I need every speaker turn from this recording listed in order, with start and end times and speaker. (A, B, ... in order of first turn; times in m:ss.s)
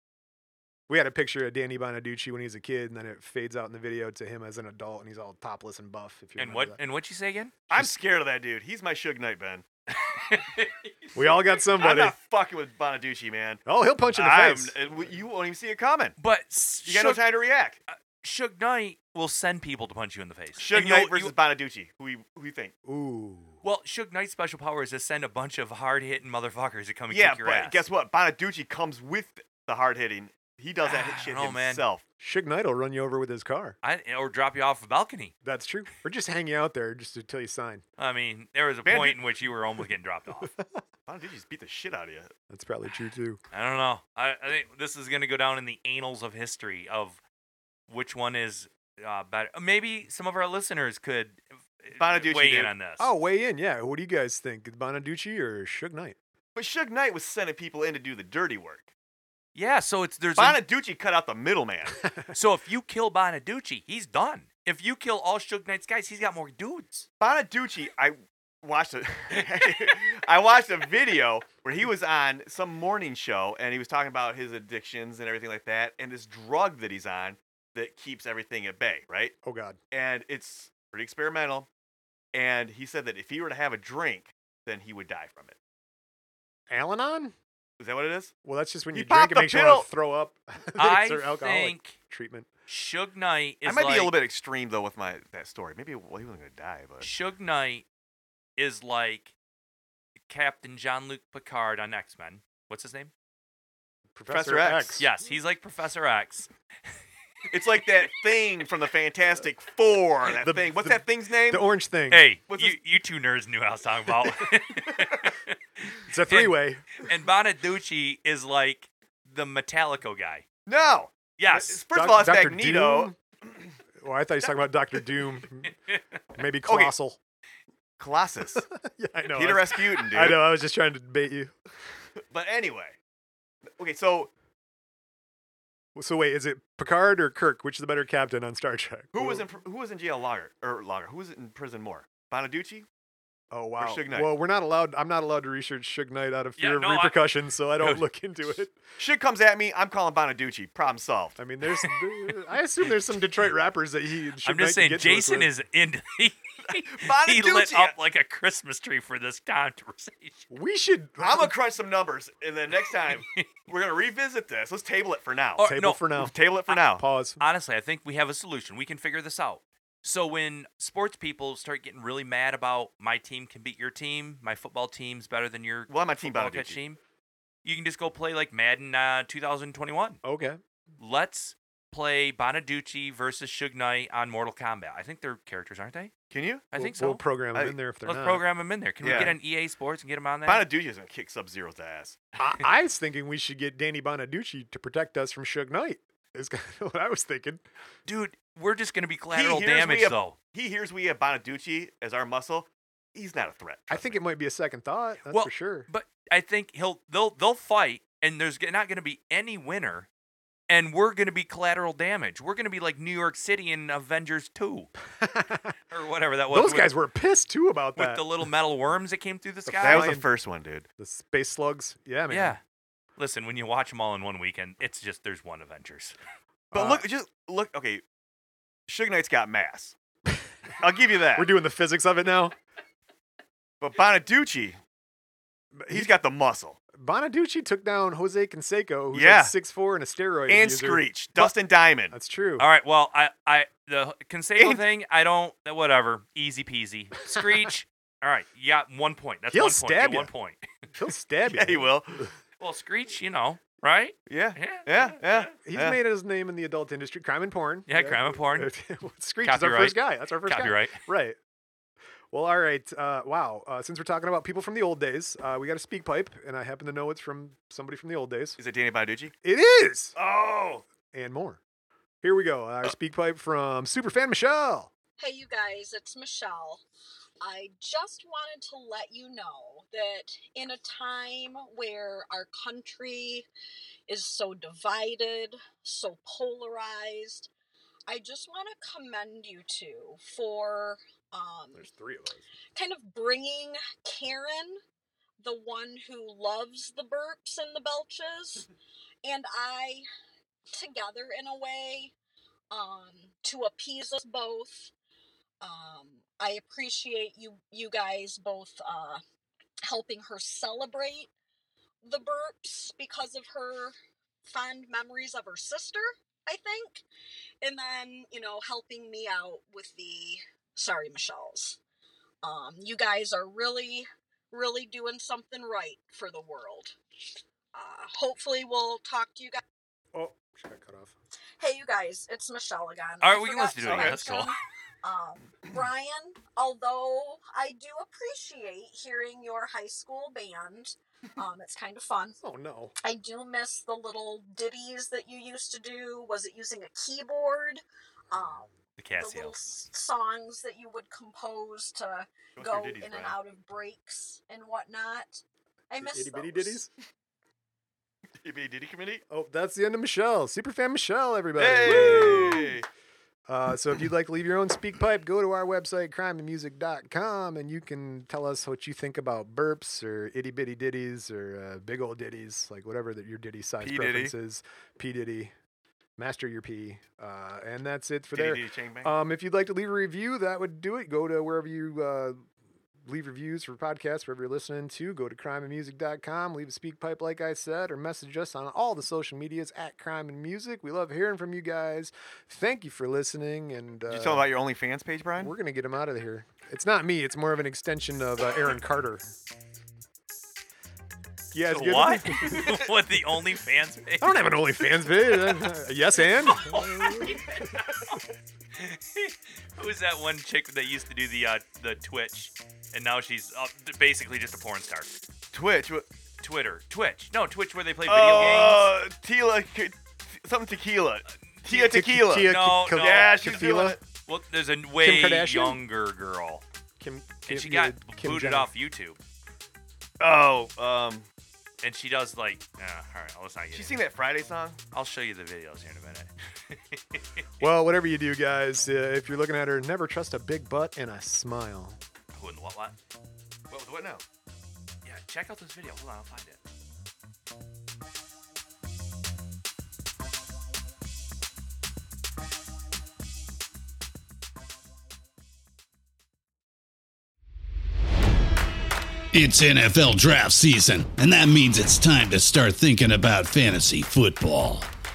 0:00.9-0:06.8 A
0:06.4-0:07.6 B
0:07.7-0:09.6 C
0:10.1-0:11.1 B
0:11.2-0:12.2 A
0:11.8-0:16.2 C
0:13.7-0:14.8 A
0:16.2-0:17.3 B
0:16.9-0:17.8 C
0:17.9-0:21.3 B
0:20.6-0:22.7 C
0:22.8-0:23.6 A
0:23.6-0:27.8 B
0:27.1-0:32.0 C
0:30.8-0:31.8 B
0:32.2-0:33.8 A
0:33.8-0:35.3 B
0:35.4-0:37.8 A
0:38.0-0:40.5 B
0:38.8-0:39.2 C
0:41.1-0:42.3 C
0:42.5-0:43.4 A
0:43.5-0:47.2 B
0:47.9-0:53.1 B
0:52.0-0:52.7 C
0:53.0-0:56.2 A
0:56.6-0:58.9 C
0:59.6-1:00.6 B
1:00.4-1:02.1 C
1:02.3-1:07.1 B
1:07.2-1:19.3 C
1:19.4-1:19.8 A
1:19.9-1:21.7 C
1:22.3-1:25.6 C
1:26.7-1:27.4 A
1:27.8-1:28.3 C
1:28.4-1:32.5 A
1:28.9-1:29.9 C
1:30.8-1:32.0 B
1:32.7-1:34.1 B
1:33.6-1:37.1 C
1:37.0-1:37.9 B
1:38.6-1:39.3 B
1:40.3-1:43.1 B
1:44.2-1:45.1 A
1:44.3-1:45.0 C
1:45.0-1:46.5 B
1:47.5-1:51.7 C
1:50.4-1:52.3 A
1:52.1-2:00.5 B
1:52.5-1:52.8 C
1:56.1-1:57.0 A
2:00.7-2:03.7 C
2:01.4-2:01.8 B
2:01.9-2:03.2 A
2:04.0-2:05.7 A
2:06.3-2:07.2 A
2:06.7-2:06.9 C
2:08.0-2:08.6 C
2:08.6-2:11.5 A
2:09.3-2:10.4 C
2:12.3-2:13.0 C
2:13.8-2:14.3 C
2:16.0-2:19.5 A
2:19.2-2:22.9 C
2:23.5-2:28.8 A
2:23.8-2:24.3 C
2:26.6-2:27.2 B
2:29.0-2:31.4 C
2:31.4-2:35.5 A
2:34.4-2:40.5 B
2:36.7-2:38.0 C
2:40.5-2:41.6 A
2:41.2-2:47.0 C
2:43.1-2:43.4 B
2:45.6-2:46.1 B
2:45.6-2:46.4 A
2:47.0-2:47.4 A
2:47.4-2:57.0 B
2:55.9-2:56.8 C
2:57.6-3:00.2 B
3:00.2-3:00.6 A
3:01.0-3:06.2 B
3:06.3-3:06.7 C
3:06.7-3:07.2 B
3:06.8-3:08.4 A
3:08.0-3:10.7 B
3:09.0-3:09.3 C
3:09.0-3:09.4 A
3:10.5-3:12.2 C
3:12.4-3:17.6 A
3:18.1-3:20.4 B
3:19.3-3:24.2 C
3:23.9-3:25.9 A
3:25.3-3:30.1 B
3:30.7-3:34.9 B
3:35.2-3:35.7 A
3:35.9-3:36.9 B
3:36.5-3:38.5 A
3:38.0-3:40.2 B
3:39.7-3:40.3 A
3:39.8-3:40.9 C
3:41.0-3:42.6 A
3:42.3-3:42.6 B
3:43.2-3:46.2 B
3:46.7-3:47.0 A
3:46.7-3:48.0 C
3:48.9-3:50.0 C
3:50.8-3:51.5 C
3:51.3-3:52.6 A
3:53.8-3:54.8 C
3:55.8-3:56.1 A
3:55.9-3:56.8 C
3:56.9-4:01.6 A
3:59.1-3:59.5 C
4:00.5-4:02.1 C
4:02.1-4:02.7 A
4:02.6-4:10.6 B
4:09.5-4:10.3 A
4:11.0-4:12.2 A
4:11.5-4:12.2 C
4:12.6-4:15.5 B
4:14.3-4:16.0 C
4:15.6-4:21.4 A
4:17.9-4:18.7 B
4:19.4-4:21.0 B
4:22.3-4:28.6 A
4:28.6-4:29.3 C
4:29.4-4:30.2 A
4:30.2-4:30.9 C
4:31.1-4:31.6 A
4:32.2-4:34.9 A
4:35.2-4:36.8 D
4:37.4-4:43.5 D
4:44.1-4:47.5 D
4:48.1-4:51.9 D
4:51.7-4:52.5 A
4:52.8-4:54.8 D
4:55.4-4:58.7 D
4:59.2-5:00.1 D
5:00.7-5:02.1 D
5:02.7-5:04.9 D
5:05.6-5:09.2 D
5:09.9-5:11.3 D
5:12.0-5:17.0 D
5:17.6-5:21.8 D
5:22.4-5:27.0 D
5:27.7-5:29.6 D
5:30.1-5:31.1 A
5:31.6-5:42.4 D
5:33.2-5:34.5 B
5:33.9-5:34.2 C
5:42.4-5:42.9 A
5:43.0-5:56.8 D
5:48.3-5:48.7 A
5:49.0-5:49.6 B
5:52.6-5:53.4 C
5:55.9-5:56.9 A
5:58.4-5:59.2 C
5:59.3-6:02.8 A
6:01.6-6:02.9 C
6:03.5-6:15.5 A
6:13.8-6:14.3 C
6:16.2-6:22.4 A
6:18.3-6:19.1 C
6:23.0-6:34.5 A
6:34.1-6:35.5 C
6:35.4-6:39.3 A
6:41.5-6:42.7 A
6:41.7-6:42.9 C
6:42.0-6:44.4 B
6:44.2-6:47.7 A
6:46.3-6:55.1 B
6:55.5-6:56.1 C
6:56.4-6:58.9 B
6:58.1-7:04.0 C
7:01.7-7:04.0 A
7:02.4-7:03.7 B
7:04.3-7:06.6 B
7:05.0-7:05.8 A
7:07.0-7:08.7 A
7:07.5-7:09.2 B
7:10.2-7:11.3 C
7:11.8-7:14.0 B
7:13.7-7:14.8 C
7:14.9-7:17.7 B
7:17.6-7:22.0 A
7:22.3-7:23.0 B
7:23.7-7:24.2 C
7:25.0-7:26.6 B
7:39.3-7:44.9 E